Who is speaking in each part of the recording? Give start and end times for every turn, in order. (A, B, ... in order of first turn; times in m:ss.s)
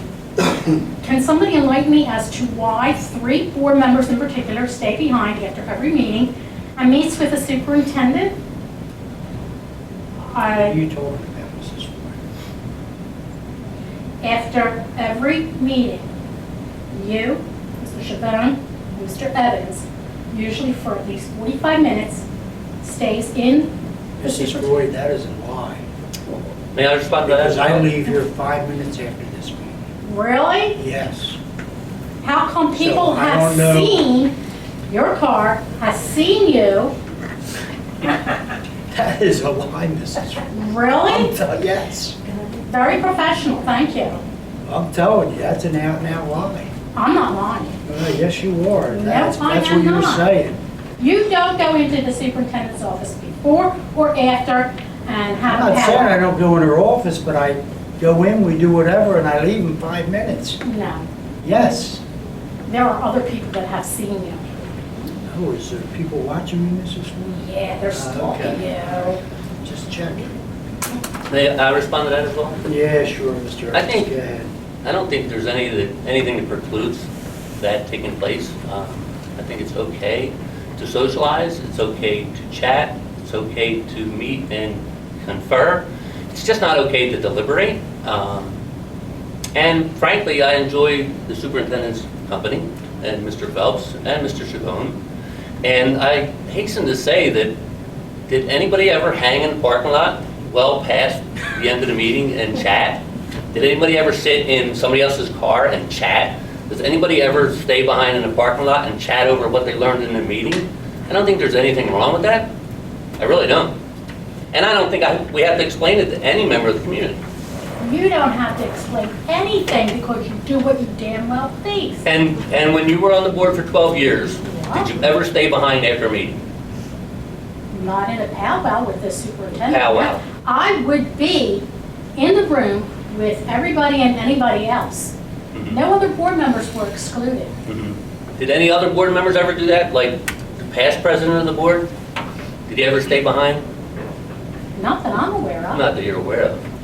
0:01.0-0:08.4 A
0:10.2-0:10.8 A
0:10.5-0:12.2 B
0:14.2-0:16.1 A
0:16.9-0:22.3 A
0:22.8-0:24.8 A
0:24.2-0:25.8 B
0:26.8-0:27.9 C
0:27.3-0:29.8 B
0:30.0-0:30.8 A
0:30.8-0:31.4 B
0:32.2-0:34.3 A
0:32.7-0:34.1 B
0:34.9-0:36.9 A
0:38.9-0:40.5 B
0:40.5-0:41.3 A
0:41.1-0:42.2 B
0:42.6-0:44.2 A
0:44.7-0:46.7 B
0:47.0-0:47.8 A
0:47.8-0:50.6 B
0:48.9-0:50.3 A
0:51.0-0:56.3 A
0:55.5-1:00.6 B
1:00.6-1:01.0 A
1:01.4-1:02.0 B
1:02.7-1:04.5 A
1:05.2-1:10.4 B
1:07.4-1:09.2 A
1:11.3-1:12.7 C
1:12.6-1:14.5 B
1:13.7-1:14.1 C
1:14.8-1:17.1 C
1:17.6-1:28.6 C
1:29.6-1:35.0 C
1:35.6-1:37.5 C
1:38.3-1:43.0 C
1:43.5-1:52.5 C
1:53.2-1:53.8 C
1:54.5-1:57.2 C
1:57.8-2:02.0 A
2:02.0-2:06.4 C
2:04.4-2:04.9 A
2:07.7-2:11.6 A
2:09.6-2:10.2 C
2:12.2-2:15.2 A
2:15.5-2:15.8 C
2:15.7-2:17.5 A
2:17.7-2:21.9 C
2:22.7-2:23.6 C
2:24.8-2:25.8 A
2:25.7-2:26.6 C